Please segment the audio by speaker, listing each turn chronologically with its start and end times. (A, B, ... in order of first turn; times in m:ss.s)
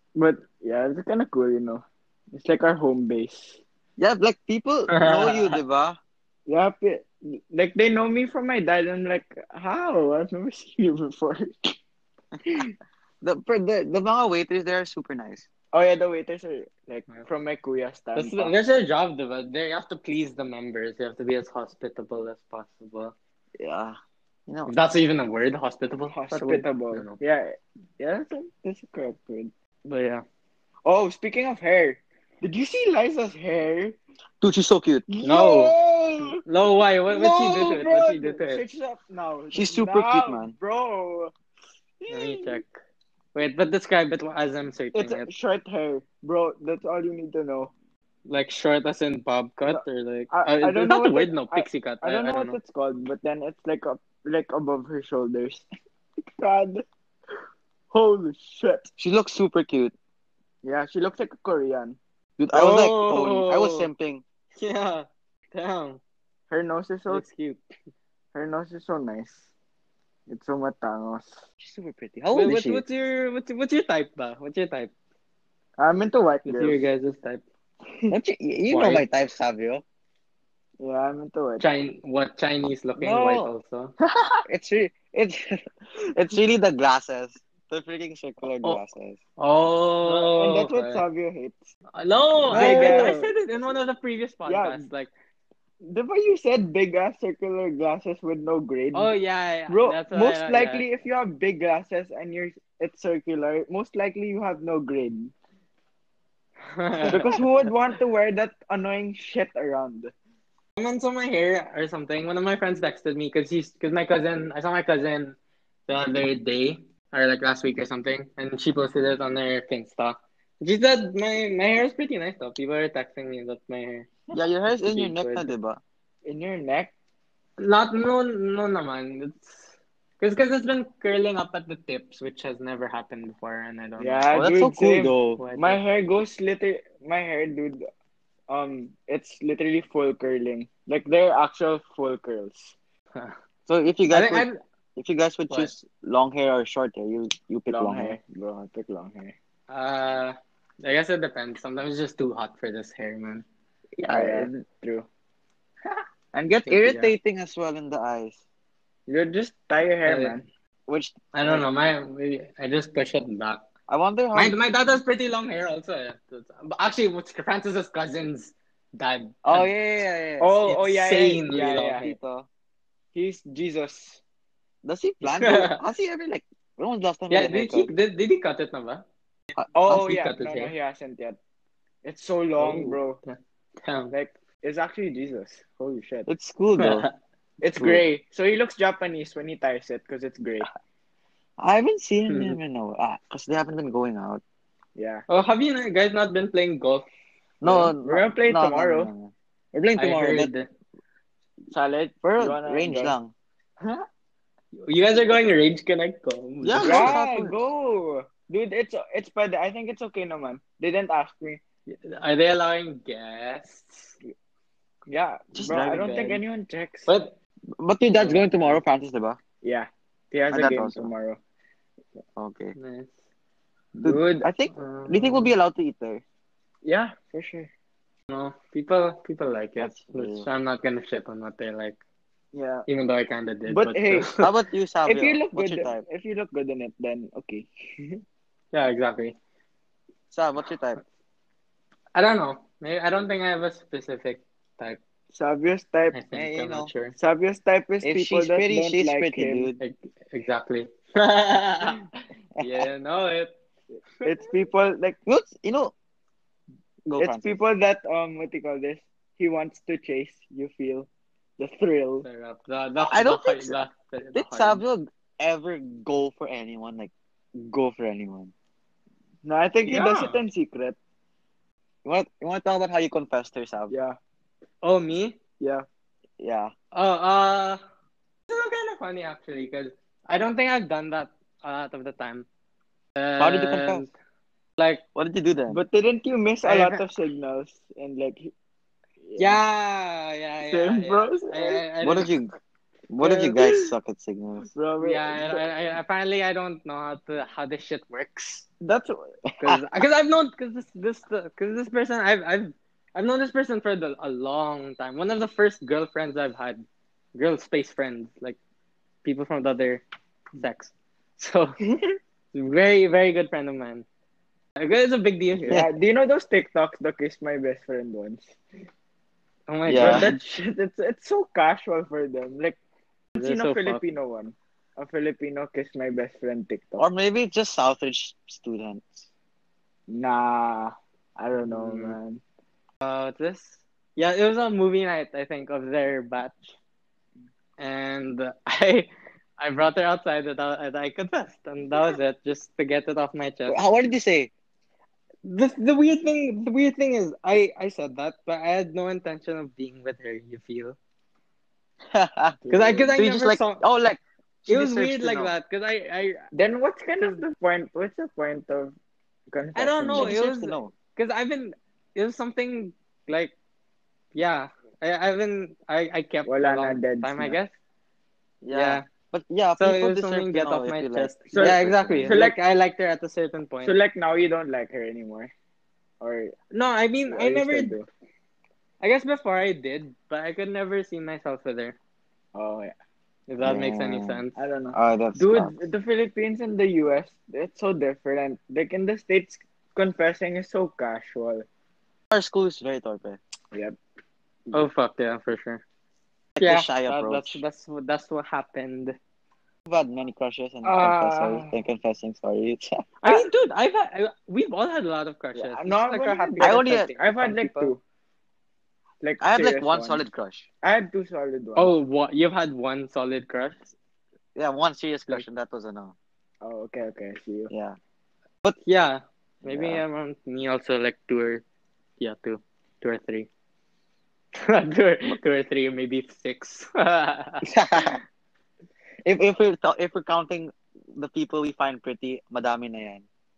0:00.2-0:03.6 A
0:04.0-0:06.0 B
0:04.9-0:05.6 C
0:06.5-0:11.8 A
0:12.4-0:12.7 A
0:13.2-0:15.5 B
0:15.7-0:18.5 A
0:18.2-0:23.1 C
0:23.6-0:24.7 B
0:24.7-0:27.2 C
0:26.1-0:29.5 A
0:29.8-0:30.2 C
0:30.8-0:34.0 A
0:34.4-0:35.1 B
0:35.1-0:36.4 A
0:35.2-0:35.8 C
0:36.4-0:38.6 C
0:37.1-0:41.3 A
0:39.5-0:40.5 B
0:42.0-0:42.6 A
0:42.1-0:42.7 C
0:43.3-0:45.3 C
0:44.9-0:47.7 A
0:48.3-0:52.6 C
0:49.7-0:55.6 A
0:56.3-0:56.8 A
0:57.9-0:58.9 A
0:59.0-1:00.0 B
1:00.6-1:02.0 A
1:02.4-1:04.2 B
1:02.5-1:03.9 C
1:04.6-1:06.0 C
1:06.5-1:07.2 A
1:07.1-1:07.6 C
1:08.3-1:09.4 A
1:10.3-1:11.4 A
1:11.6-1:12.8 B
1:12.3-1:14.9 C
1:15.8-1:16.8 A
1:16.4-1:17.4 C
1:18.1-1:19.8 B
1:18.7-1:19.0 C
1:20.8-1:21.7 A
1:21.6-1:23.9 C
1:23.0-1:23.5 B
1:24.1-1:24.4 A
1:24.5-1:29.2 B
1:29.4-1:31.0 C
1:30.0-1:31.7 A
1:31.9-1:35.1 C
1:32.5-1:33.3 A
1:32.5-1:33.2 B
1:34.5-1:34.9 A
1:35.8-1:39.1 A
1:38.9-1:40.9 C
1:39.7-1:45.3 A
1:46.6-1:47.4 C
1:47.0-1:50.1 A
1:50.8-1:55.4 C
1:55.9-2:04.2 C
2:04.3-2:05.8 B
2:04.7-2:05.5 C
2:06.2-2:06.9 A
2:07.6-2:14.3 C
2:14.0-2:17.9 A
2:14.3-2:15.4 B
2:15.4-2:15.8 C
2:18.5-2:22.8 A
2:23.7-2:28.2 B
2:24.1-2:24.6 C
2:27.7-2:29.4 A
2:29.7-2:33.5 C
2:34.0-2:34.6 B
2:34.1-2:35.1 A
2:36.3-2:38.4 B
2:36.7-2:37.1 C
2:39.1-2:40.4 A
2:40.0-2:40.4 C
2:40.9-2:41.7 B
2:41.3-2:43.6 C
2:43.9-2:44.6 B
2:44.3-2:49.7 C
2:49.4-2:50.7 B
2:50.4-2:52.1 A
2:50.7-2:52.2 C
2:52.0-2:52.5 B
2:53.1-2:54.2 A
2:54.8-2:57.9 B
2:55.2-2:55.8 C
2:57.3-2:59.0 C
2:59.8-3:01.4 A
2:59.9-3:00.7 C
3:02.0-3:03.2 A
3:02.6-3:04.1 C
3:04.1-3:06.3 A
3:06.3-3:07.1 B
3:06.8-3:07.1 C
3:07.6-3:10.7 A
3:07.8-3:08.0 B
3:11.6-3:14.4 B
3:12.3-3:12.6 C
3:15.0-3:15.2 A
3:15.3-3:17.1 C
3:17.6-3:20.5 B
3:17.6-3:19.1 A
3:20.0-3:20.7 C
3:21.7-3:23.2 A
3:22.2-3:23.3 B
3:24.8-3:27.2 C
3:26.6-3:27.6 B
3:26.8-3:31.6 A
3:31.9-3:34.2 C
3:35.1-3:37.1 A
3:35.5-3:36.4 B
3:35.7-3:36.4 C
3:37.1-3:37.4 C
3:37.8-3:39.4 B
3:38.2-3:38.8 C
3:39.6-3:41.4 A
3:40.5-3:41.1 B
3:42.4-3:42.8 B
3:42.8-3:43.1 C
3:44.0-3:44.5 A
3:44.0-3:46.2 B
3:44.7-3:45.5 C
3:46.8-3:47.7 A
3:48.3-3:52.0 C
3:49.8-3:50.5 B
3:52.5-3:52.9 A
3:52.9-3:54.4 C
3:53.7-3:54.3 A
3:54.4-3:56.0 B
3:55.1-3:58.2 A
3:58.7-3:59.4 C
4:00.3-4:01.0 B
4:02.2-4:05.0 C
4:05.3-4:06.2 A
4:06.1-4:07.1 C
4:06.3-4:06.9 B
4:07.2-4:09.7 A
4:08.0-4:09.8 B
4:09.8-4:13.5 C
4:12.6-4:12.9 B
4:14.2-4:15.2 A
4:15.3-4:15.9 B
4:17.1-4:17.6 B
4:17.2-4:22.3 A
4:22.2-4:24.8 C
4:23.0-4:23.8 B
4:24.4-4:28.5 B
4:29.4-4:31.0 A
4:29.8-4:30.4 C
4:32.0-4:33.9 B
4:33.9-4:34.2 A
4:34.8-4:35.4 C
4:35.6-4:35.8 A
4:36.4-4:36.7 B
4:36.9-4:37.8 C
4:38.5-4:42.5 C
4:43.2-4:44.1 C
4:43.4-4:44.1 B
4:44.8-4:45.0 C
4:45.2-4:45.8 B
4:45.7-4:48.5 A
4:46.6-4:47.0 C
4:49.3-4:49.6 A
4:49.4-4:52.3 C
4:50.7-4:51.8 A
4:52.0-4:52.5 B
4:53.1-4:54.7 B
4:53.2-4:53.9 A
4:54.7-4:55.7 A
4:55.0-4:58.6 C
4:58.8-4:59.3 A
4:59.6-5:08.6 C
5:09.2-5:10.0 C
5:10.6-5:11.8 C
5:12.5-5:14.1 C
5:14.8-5:15.8 C
5:15.7-5:18.4 A
5:19.7-5:20.4 C
5:19.9-5:20.3 B
5:20.0-5:22.8 A
5:23.4-5:27.0 A
5:23.4-5:24.0 C
5:27.0-5:29.3 B
5:30.1-5:32.4 A
5:31.6-5:32.2 C
5:33.0-5:36.7 C
5:37.8-5:43.8 C
5:43.7-5:44.5 B
5:45.4-5:51.0 C
5:52.1-5:52.6 B
5:52.6-5:53.1 A
5:52.7-5:53.8 C
5:53.1-5:55.5 B
5:54.7-5:56.5 C
5:56.5-5:59.0 A
5:59.5-6:00.4 A
5:59.8-6:03.5 C
6:00.1-6:00.9 B
6:04.3-6:07.8 C
6:06.5-6:07.6 A
6:08.6-6:12.4 B
6:08.7-6:09.1 C
6:09.8-6:14.0 C
6:11.5-6:12.6 A
6:13.8-6:15.5 A
6:16.2-6:16.5 A
6:16.7-6:17.9 C
6:17.3-6:18.1 A
6:19.0-6:22.0 C
6:22.6-6:22.9 A
6:23.5-6:24.6 C
6:23.6-6:24.4 B
6:24.6-6:31.6 A
6:24.9-6:25.7 B
6:32.3-6:33.4 B
6:34.7-6:35.8 C
6:36.6-6:37.6 B
6:36.6-6:39.2 C
6:39.9-6:43.0 B
6:40.8-6:41.8 A
6:43.2-6:47.9 C
6:45.6-6:48.0 A
6:46.6-6:47.5 B
6:49.2-6:50.2 A
6:49.4-6:50.7 B
6:50.8-6:51.9 A
6:51.8-6:53.9 C
6:54.6-6:56.2 B
6:56.6-6:57.7 A
6:57.7-6:58.0 B
6:58.8-7:01.6 C
6:59.6-7:00.0 B
7:02.2-7:03.5 C
7:04.6-7:08.1 C
7:07.6-7:08.2 B
7:09.2-7:13.2 B